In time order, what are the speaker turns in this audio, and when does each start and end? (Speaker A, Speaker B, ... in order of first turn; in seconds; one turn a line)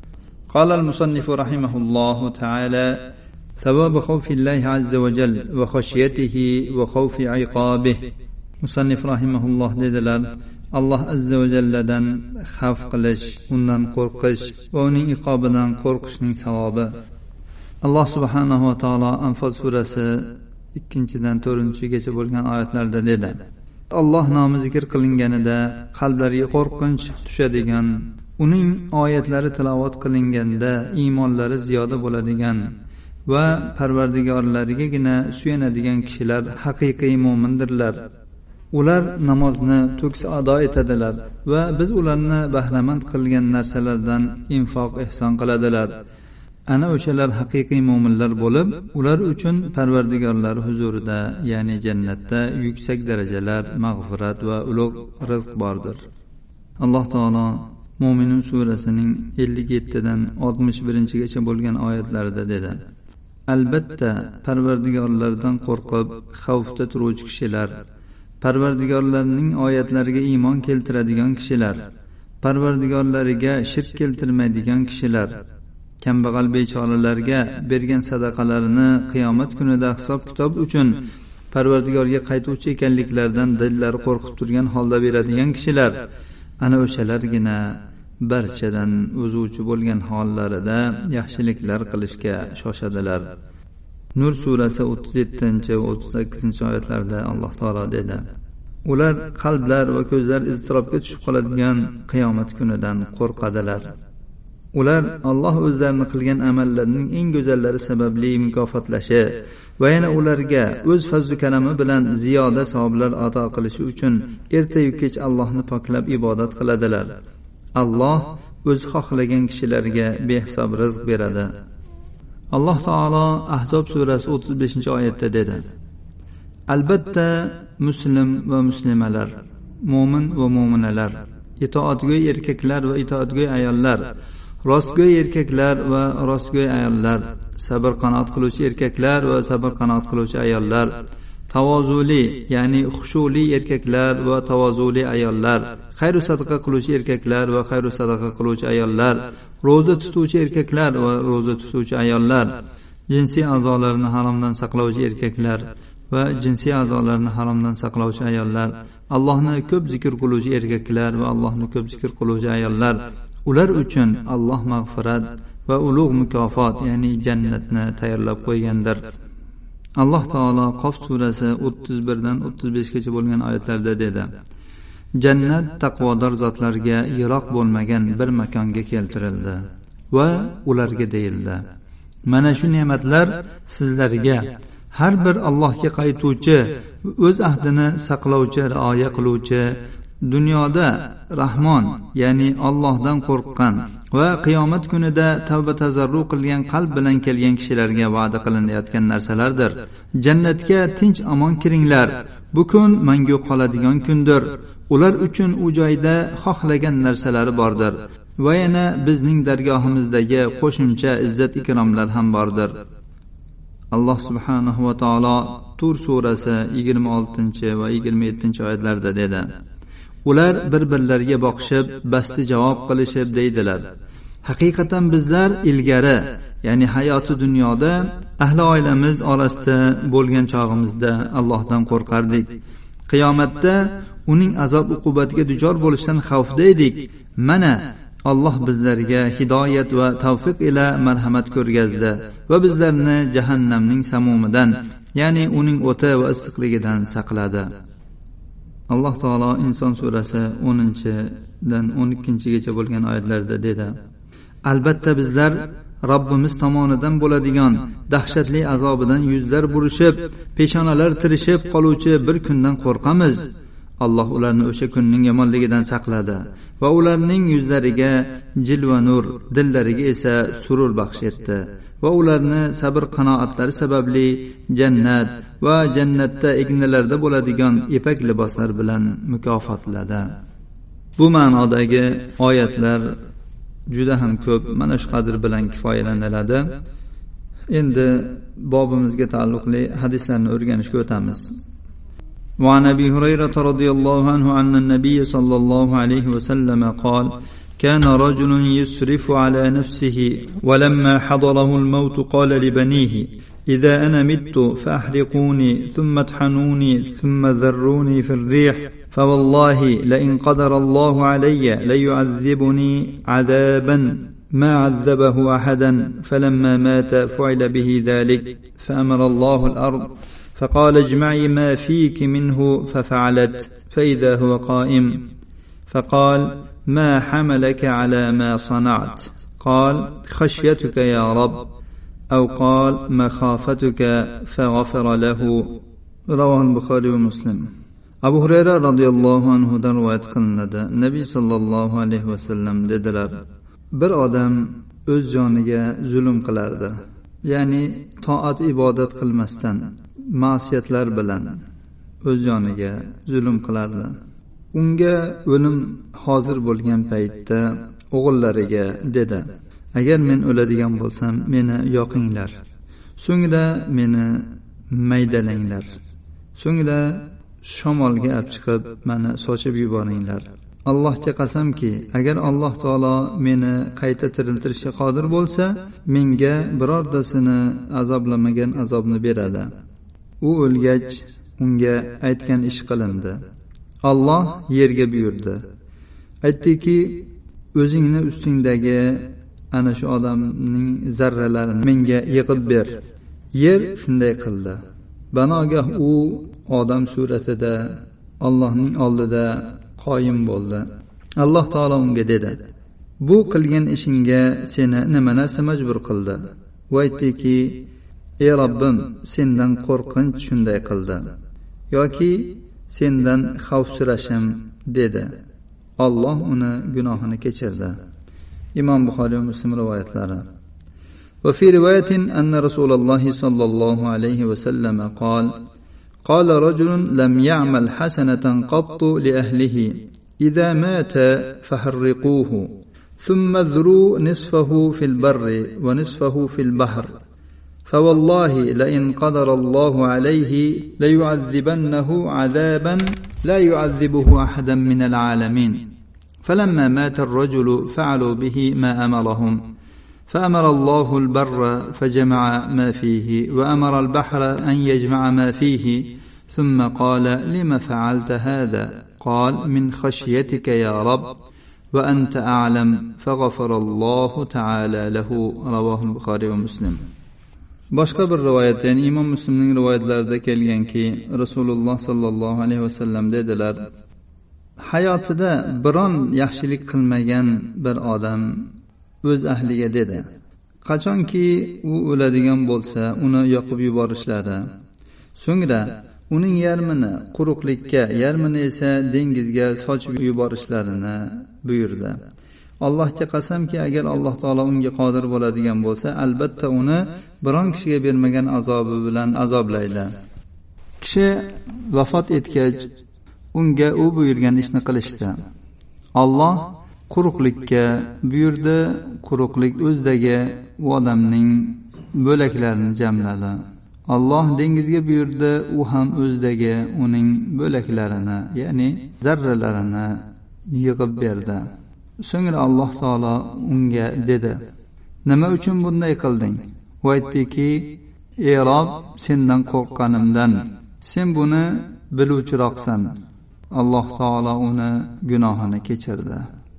Speaker A: 0.5-3.0
Speaker A: 3.6-8.0
Speaker A: 8.6-16.9
Speaker A: 17.8-23.4
Speaker A: 23.9-32.7
Speaker A: 33.3-38.0
Speaker A: 38.7-45.9
Speaker A: 46.7-56.0
Speaker A: 56.8-62.8
Speaker A: 63.5-67.7
Speaker A: 68.4-71.8
Speaker A: 72.4-75.3
Speaker A: 76.0-86.0
Speaker A: 86.6-93.3
Speaker A: 94.1-98.2
Speaker A: 98.8-103.9
Speaker A: 104.7-117.1
Speaker A: 117.8-121.5
Speaker A: 122.5-125.6
Speaker A: 126.7-134.1
Speaker A: 134.6-140.9
Speaker A: 141.5-152.6
Speaker A: 153.1-169.0
Speaker A: 170.0-174.3
Speaker A: 175.2-181.6
Speaker A: 182.2-212.8
Speaker A: 213.9-219.5
Speaker A: 220.2-223.9
Speaker A: 224.4-232.6
Speaker A: 233.1-247.7
Speaker A: 248.9-253.9
Speaker A: 254.7-263.5
Speaker A: 264.0-280.3
Speaker A: 281.2-283.1
Speaker A: 283.9-286.7
Speaker A: 287.7-291.6
Speaker A: 292.6-325.3
Speaker A: 325.9-331.7
Speaker A: 332.3-337.6
Speaker A: 338.2-343.4
Speaker A: 343.9-351.6
Speaker A: 352.2-354.1
Speaker A: 354.7-362.6
Speaker A: 363.2-366.0
Speaker A: 366.5-379.7
Speaker A: 380.4-383.4
Speaker A: 384.0-385.6
Speaker A: 386.4-393.0
Speaker A: 393.5-394.8
Speaker A: 395.3-400.9
Speaker A: 401.4-402.6
Speaker A: 403.2-407.9
Speaker A: 408.4-411.3
Speaker A: 411.9-415.3
Speaker A: 416.0-417.9
Speaker A: 418.7-420.4
Speaker A: 421.4-425.5
Speaker A: 426.2-437.1
Speaker A: 437.9-445.9
Speaker A: 446.4-449.6
Speaker A: 450.3-461.4
Speaker A: 461.9-467.0
Speaker A: 467.9-473.8
Speaker A: 474.9-478.7
Speaker A: 479.2-480.2
Speaker A: 480.8-484.6
Speaker A: 485.4-492.2
Speaker A: 492.8-500.1
Speaker A: 501.0-502.9
Speaker A: 503.5-505.4
Speaker A: 506.1-521.7
Speaker A: 522.2-524.6
Speaker A: 525.2-533.1
Speaker A: 533.7-536.5